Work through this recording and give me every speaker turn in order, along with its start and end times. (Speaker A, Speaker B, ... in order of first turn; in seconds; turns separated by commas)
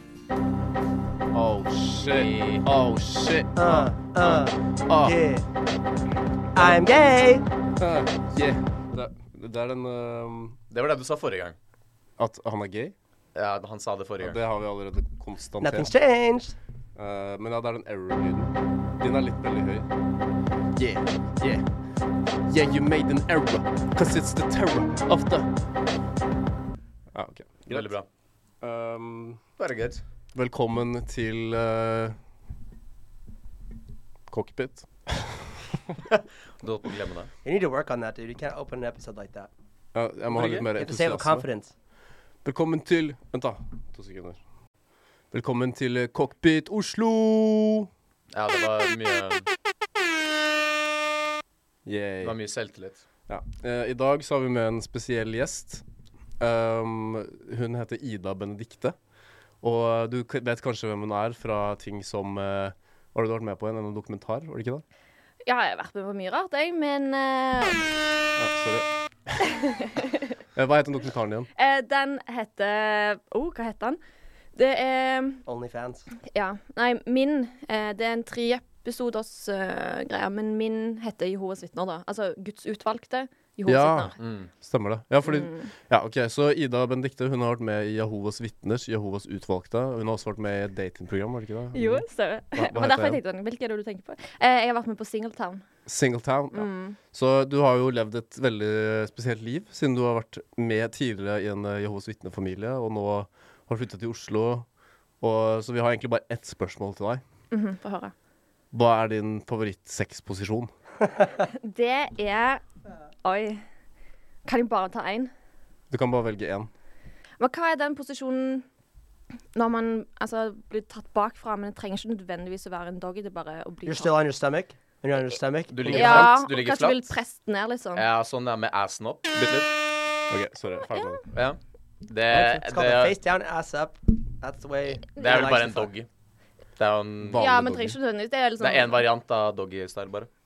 Speaker A: 1.3-5.2, Speaker B: 2.0-2.7, Speaker C: 3.6-5.5, Speaker A: 6.5-6.8, Speaker C: 6.5-7.5, Speaker A: 7.8-10.6, Speaker B: 10.7-11.6, Speaker A: 12.2-12.9, Speaker B: 13.3-14.4, Speaker A: 14.2-15.9, Speaker C: 15.6-16.6, Speaker A: 17.0-19.9, Speaker A: 20.8-21.7, Speaker A: 22.4-25.5, Speaker A: 27.1-27.9, Speaker B: 27.7-28.1, Speaker A: 28.6-29.4, Speaker B: 29.6-30.0, Speaker A: 30.3-32.2, Speaker A: 34.3-36.0, Speaker B: 36.6-37.3, Speaker C: 37.4-39.5, Speaker A: 40.0-41.5, Speaker B: 40.3-40.7, Speaker C: 40.8-41.7, Speaker A: 42.4-44.4, Speaker A: 45.3-47.9, Speaker B: 48.3-49.5, Speaker A: 51.9-52.4, Speaker B: 52.2-53.0, Speaker A: 53.3-55.8, Speaker A: 56.4-59.0, Speaker A: 59.6-64.8, Speaker D: 65.5-67.9, Speaker A: 68.4-69.4, Speaker D: 69.5-70.0, Speaker A: 70.5-71.5, Speaker D: 71.6-74.0, Speaker D: 74.6-75.5, Speaker C: 75.5-76.1, Speaker D: 76.2-84.2, Speaker A: 83.7-93.2, Speaker B: 84.2-84.5, Speaker D: 85.3-85.7, Speaker D: 91.7-95.7, Speaker A: 95.9-104.7, Speaker D: 96.5-97.0, Speaker A: 105.2-107.2, Speaker D: 107.5-108.1, Speaker A: 108.7-110.7, Speaker D: 111.4-112.6, Speaker D: 113.2-113.6, Speaker D: 114.5-115.3, Speaker A: 115.9-116.7, Speaker D: 117.4-118.7, Speaker D: 119.5-124.1, Speaker C: 123.8-126.3, Speaker B: 125.7-127.0, Speaker A: 125.9-126.3, Speaker D: 125.9-128.1, Speaker B: 128.0-129.7, Speaker A: 130.3-131.2, Speaker D: 130.9-131.2, Speaker B: 131.3-133.2, Speaker A: 132.3-132.7, Speaker C: 132.7-135.9, Speaker B: 135.1-136.1, Speaker B: 136.8-137.4, Speaker A: 137.2-138.0, Speaker D: 137.4-139.1, Speaker B: 138.6-140.3